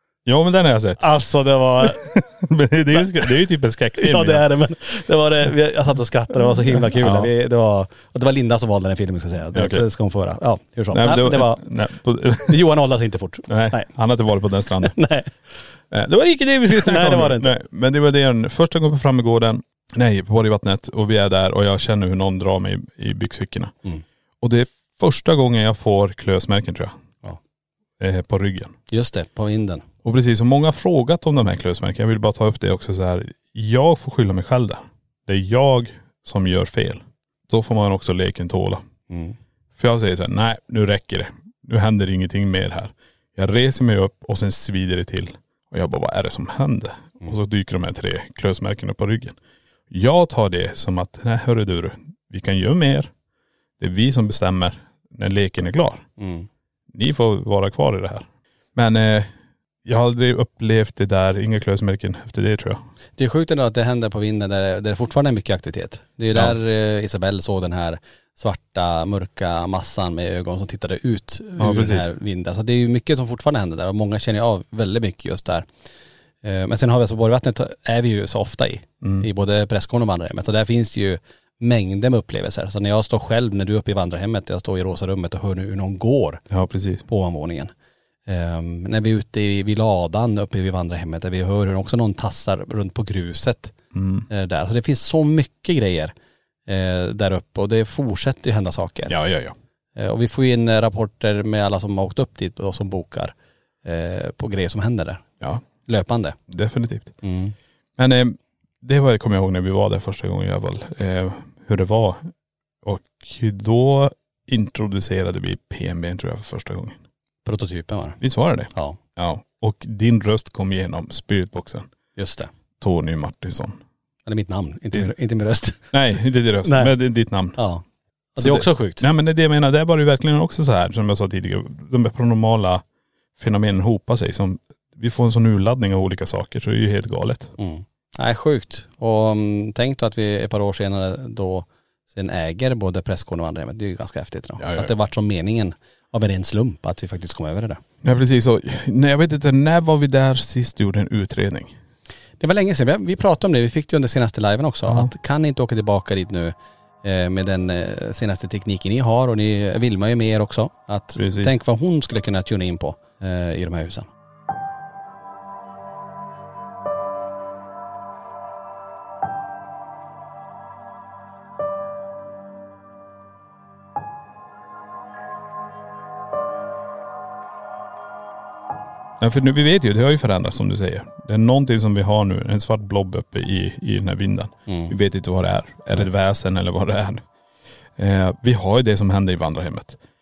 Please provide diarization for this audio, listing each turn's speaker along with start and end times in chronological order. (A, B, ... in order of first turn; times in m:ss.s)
0:00.3-0:01.0 A
0:01.0-0:02.1 B
0:01.8-0:04.5 A
0:04.0-0:11.6 B
0:06.8-0:07.3 A
0:09.5-0:09.8 A
0:10.9-0:12.6 A
0:12.5-0:13.9 B
0:13.5-0:15.0 A
0:14.8-0:15.4 B
0:15.9-0:23.7 A
0:16.7-0:17.5 B
0:24.4-0:26.9 A
0:28.0-0:28.8 A
0:28.9-0:29.8 B
0:30.0-0:38.8 A
0:39.1-0:39.4 B
0:39.8-0:49.4 A
0:49.9-0:53.1 A
0:53.8-0:56.1 A
0:56.2-0:56.5 B
0:56.9-0:59.3 A
0:59.8-1:02.8 A
1:03.2-1:15.7 B
1:11.6-1:12.1 A
1:16.4-1:26.4 B
1:19.0-1:19.3 A
1:26.5-1:27.0 A
1:27.1-1:27.7 B
1:28.3-1:33.7 B
1:33.9-1:34.3 A
1:34.3-1:36.1 B
1:36.7-1:39.2 B
1:39.1-1:39.6 A
1:40.0-1:43.3 B
1:43.8-1:45.2 B
1:45.9-1:46.4 B
1:46.5-1:47.2 A
1:47.2-1:47.6 B
1:48.0-1:52.3 A
1:52.8-1:57.0 A
1:57.4-1:58.2 B
1:58.2-2:01.9 A
1:58.7-1:59.0 B
2:02.2-2:02.5 B
2:02.8-2:03.8 A
2:04.3-2:05.9 B
2:05.9-2:07.6 A
2:06.6-2:06.9 B
2:07.6-2:07.8 B
2:08.4-2:09.0 B
2:08.4-2:12.8 A
2:13.4-2:17.5 A
2:17.6-2:27.8 B
2:24.6-2:24.9 A
2:28.0-2:31.8 A
2:32.4-2:44.1 B
2:34.9-2:35.1 A
2:41.2-2:41.6 A
2:59.2-3:07.2 A
3:04.7-3:04.9 B
3:08.0-3:10.0 A